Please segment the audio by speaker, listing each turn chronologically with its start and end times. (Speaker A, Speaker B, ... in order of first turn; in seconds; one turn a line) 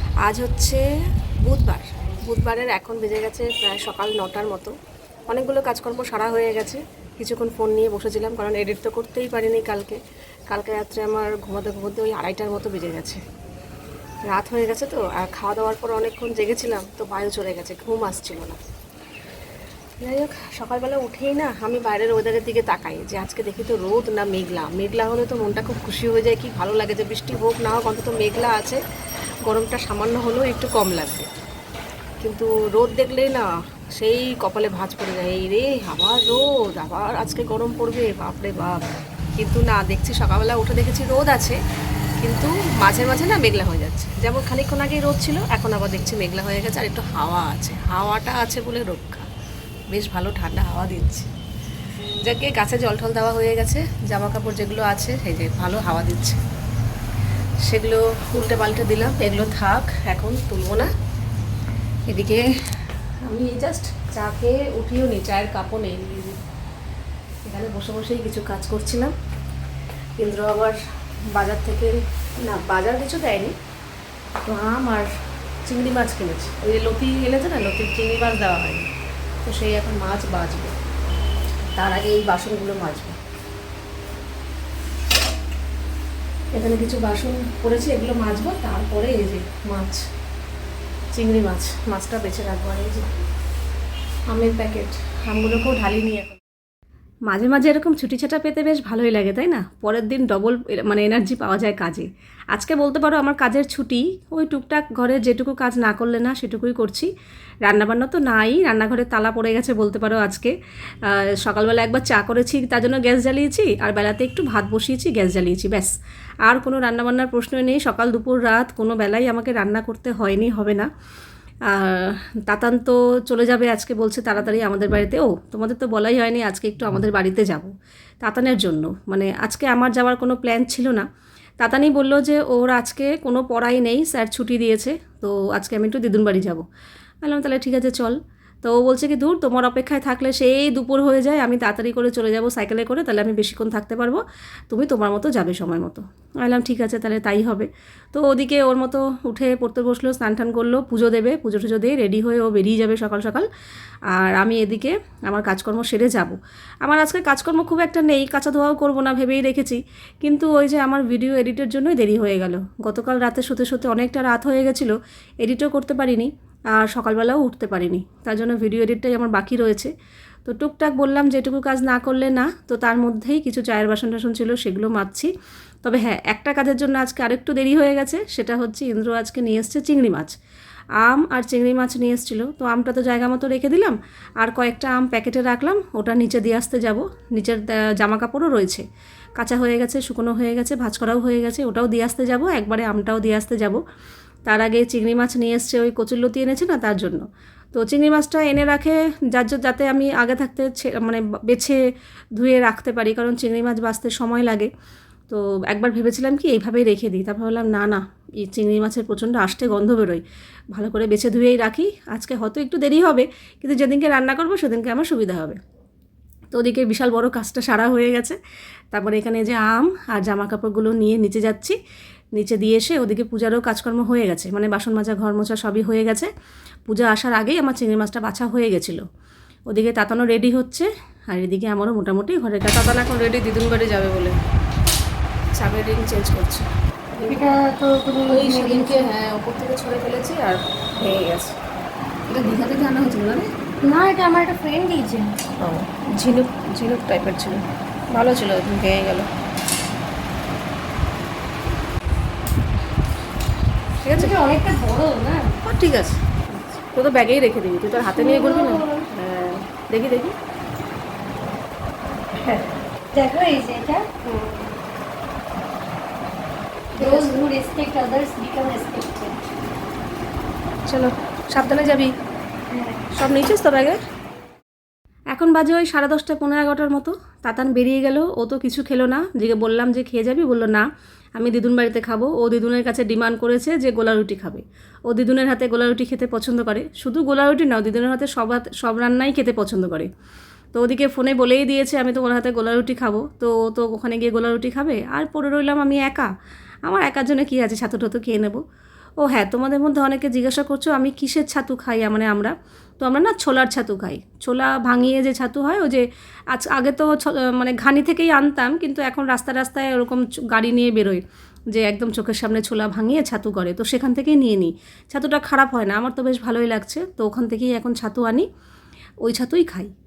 Speaker A: 0.2-0.8
Speaker A: 1.4-4.7
Speaker A: 5.3-10.0
Speaker A: 10.5-13.2
Speaker A: 14.3-18.6
Speaker A: 20.0-28.8
Speaker A: 29.4-31.3
Speaker A: 32.2-33.5
Speaker A: 34.0-38.8
Speaker A: 39.4-41.6
Speaker A: 42.2-49.3
Speaker A: 49.9-51.3
Speaker A: 52.2-56.4
Speaker A: 57.6-60.9
Speaker A: 62.1-62.4
Speaker A: 63.2-66.4
Speaker A: 67.4-69.1
Speaker A: 70.2-70.8
Speaker A: 71.3-73.5
Speaker A: 74.4-75.1
Speaker A: 75.7-78.9
Speaker A: 79.5-80.7
Speaker A: 81.8-83.2
Speaker A: 86.5-90.0
Speaker A: 91.1-93.1
Speaker A: 94.3-96.4
Speaker A: 97.3-107.1
Speaker A: 107.7-110.5
Speaker A: 111.1-115.9
Speaker A: 116.5-120.9
Speaker A: 121.7-127.7
Speaker A: 128.2-131.1
Speaker A: 131.6-136.6
Speaker A: 137.2-153.5
Speaker A: 154.1-169.9
Speaker A: 170.4-175.3
Speaker A: 175.8-180.3
Speaker A: 181.0-188.8
Speaker A: 189.4-193.8
Speaker A: 194.5-201.8
Speaker A: 202.4-204.7
Speaker A: 205.3-210.2
Speaker A: 210.7-215.6
Speaker A: 216.5-218.4
Speaker A: 218.9-221.8
Speaker A: 222.3-226.3
Speaker A: 226.9-229.0
Speaker A: 229.7-234.3
Speaker A: 235.6-236.7
Speaker A: 237.2-237.4
Speaker B: 237.3-239.1
Speaker A: 238.3-241.5
Speaker A: 242.3-243.5
Speaker B: 243.8-245.5
Speaker A: 245.6-247.6
Speaker A: 248.1-249.3
Speaker A: 254.0-254.4
Speaker B: 254.1-255.6
Speaker A: 255.6-260.3
Speaker B: 258.0-259.1
Speaker B: 262.4-264.1
Speaker A: 264.2-264.8
Speaker A: 267.0-267.4
Speaker B: 267.0-269.4
Speaker A: 270.9-272.1
Speaker B: 272.7-273.1
Speaker A: 273.1-274.0
Speaker A: 275.4-280.8
Speaker A: 281.4-290.1
Speaker A: 290.8-296.3
Speaker A: 296.9-298.6
Speaker A: 299.2-311.2
Speaker A: 311.8-318.5
Speaker A: 319.2-319.9